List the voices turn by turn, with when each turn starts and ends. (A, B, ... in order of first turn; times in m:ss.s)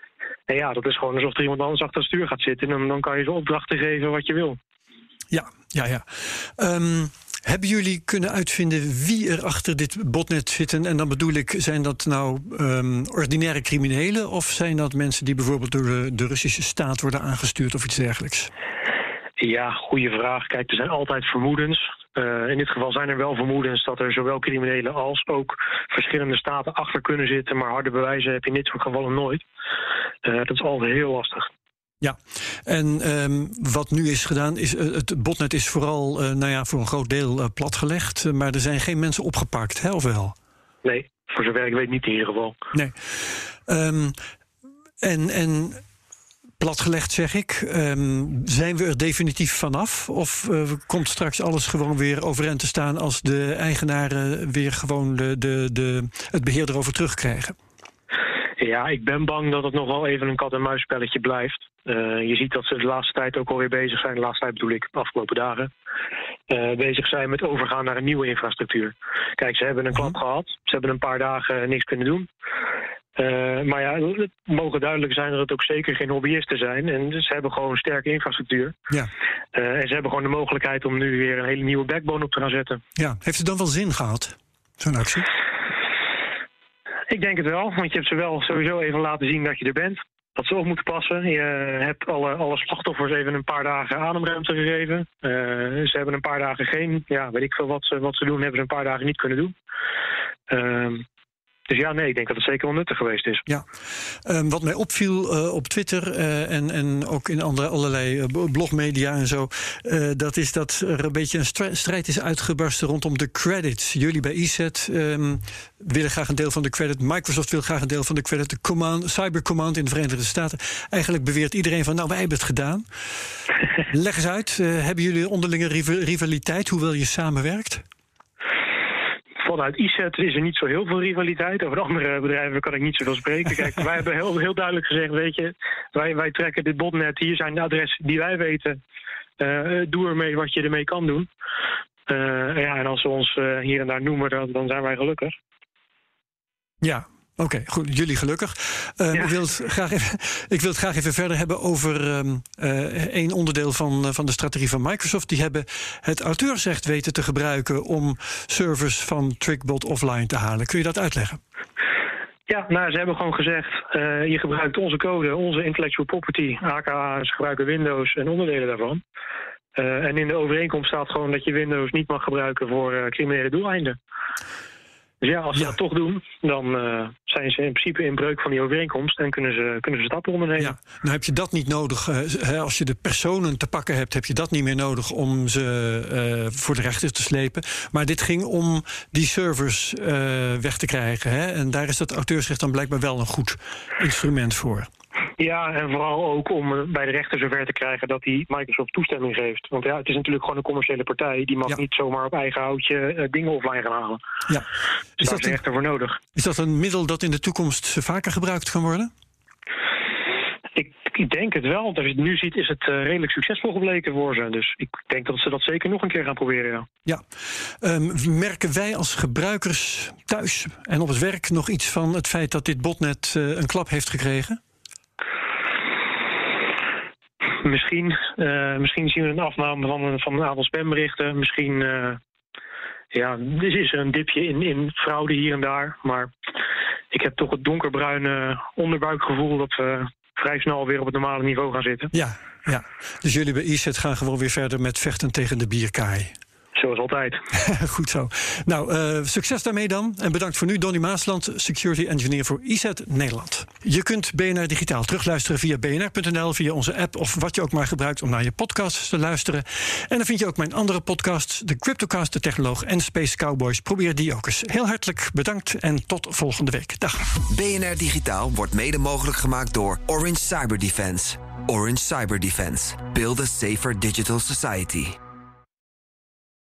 0:00.5-0:04.6 A
0:05.3-0:18.5 B
0:19.4-0:29.4 A
0:30.2-0:31.5 A
0:32.0-0:40.4 B
0:40.8-0:42.6 A
0:42.7-0:44.2 B
0:45.0-0:45.8 B
0:46.6-0:57.6 B
0:58.6-1:05.7 A
1:06.5-1:12.3 A
1:13.2-1:18.8 A
1:19.5-1:22.8 A
1:23.0-1:25.3 B
1:27.1-1:39.5 A
1:40.5-1:41.0 A
1:41.7-1:43.4 A
1:44.2-2:02.9 B
2:03.9-2:07.8 B
2:09.4-2:18.8 A
2:19.4-2:21.3 A
2:22.1-2:25.4 A
2:26.8-2:41.4 B
2:42.5-2:49.0 A
2:49.8-2:54.0 A
2:55.2-3:00.8 A
3:00.6-3:14.9 B
3:15.4-3:24.2 A
3:25.2-3:26.2 A
3:25.2-3:25.6 B
3:26.4-3:29.1 B
3:30.8-3:36.9 A
3:37.1-3:44.6 B
3:47.6-3:52.2 A
3:53.1-3:56.3 A
3:57.1-4:02.1 A
4:02.1-4:06.4 B
4:06.8-4:07.4 A
4:07.5-4:27.2 B
4:27.5-4:35.2 C